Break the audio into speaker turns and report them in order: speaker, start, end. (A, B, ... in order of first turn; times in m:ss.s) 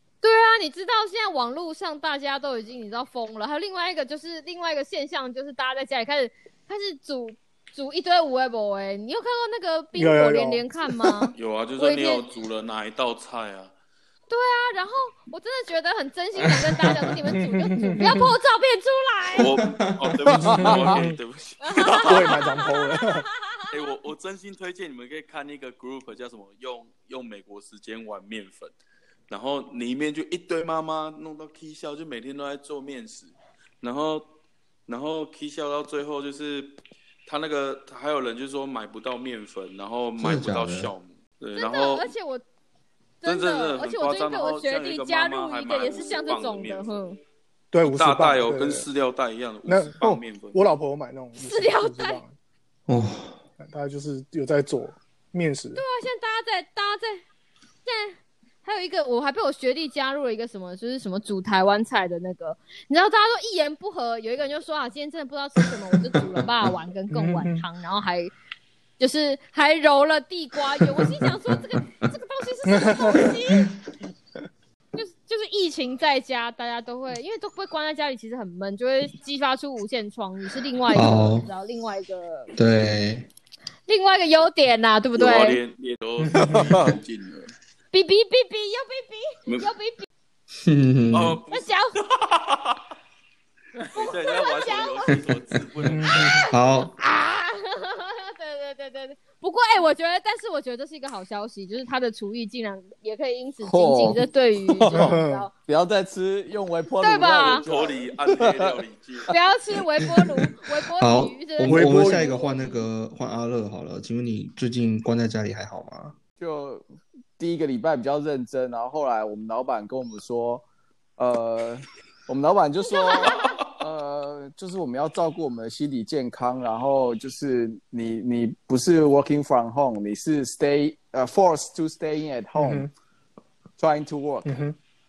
0:00.2-0:12.3 A
0:10.0-0:11.3 B
0:11.3-0:13.7 C
0:14.3-0:19.5 A
0:16.4-0:17.3 D
0:17.3-0:18.3 B
0:19.4-0:22.5 C
0:19.6-0:20.7 D
0:20.4-0:21.2 B
0:20.4-0:20.9 E
0:21.6-0:23.8 A
0:22.0-0:23.2 B
0:23.7-0:28.7 C
0:29.3-0:34.3 C
0:34.9-0:42.1 C
0:40.2-0:40.9 D
0:41.5-0:42.4 A
0:43.2-0:47.2 A
0:43.2-0:47.0 C
0:47.7-0:48.8 B
0:47.8-0:50.6 C
0:49.6-0:52.3 B
0:51.4-0:52.2 A
0:52.9-0:53.4 D
0:53.6-0:55.8 B
0:55.8-0:57.2 A
0:57.8-1:08.3 A
1:07.1-1:07.6 B
1:09.0-1:13.7 A
1:12.8-1:13.3 B
1:14.9-1:22.5 A
1:20.9-1:21.5 D
1:22.5-1:23.3 D
1:23.9-1:25.6 A
1:25.2-1:27.5 C
1:26.2-1:26.8 B
1:26.5-1:26.9 E
1:27.9-1:30.0 A
1:30.5-1:31.4 D
1:31.1-1:32.8 C
1:31.5-1:32.0 A
1:33.9-1:36.4 C
1:33.9-1:35.2 A
1:35.8-1:36.4 B
1:36.1-1:45.5 A
1:36.5-1:36.9 D
1:43.6-1:48.7 E
1:44.9-1:45.5 B
1:47.0-1:47.7 A
1:47.6-1:49.4 C
1:49.3-1:52.9 A
1:50.9-1:56.2 D
1:51.7-1:52.3 B
1:56.4-1:56.8 E
1:57.4-2:00.6 E
2:01.2-2:12.9 E
2:03.0-2:03.3 A
2:12.5-2:12.9 B
2:13.8-2:14.5 E
2:14.4-2:14.8 B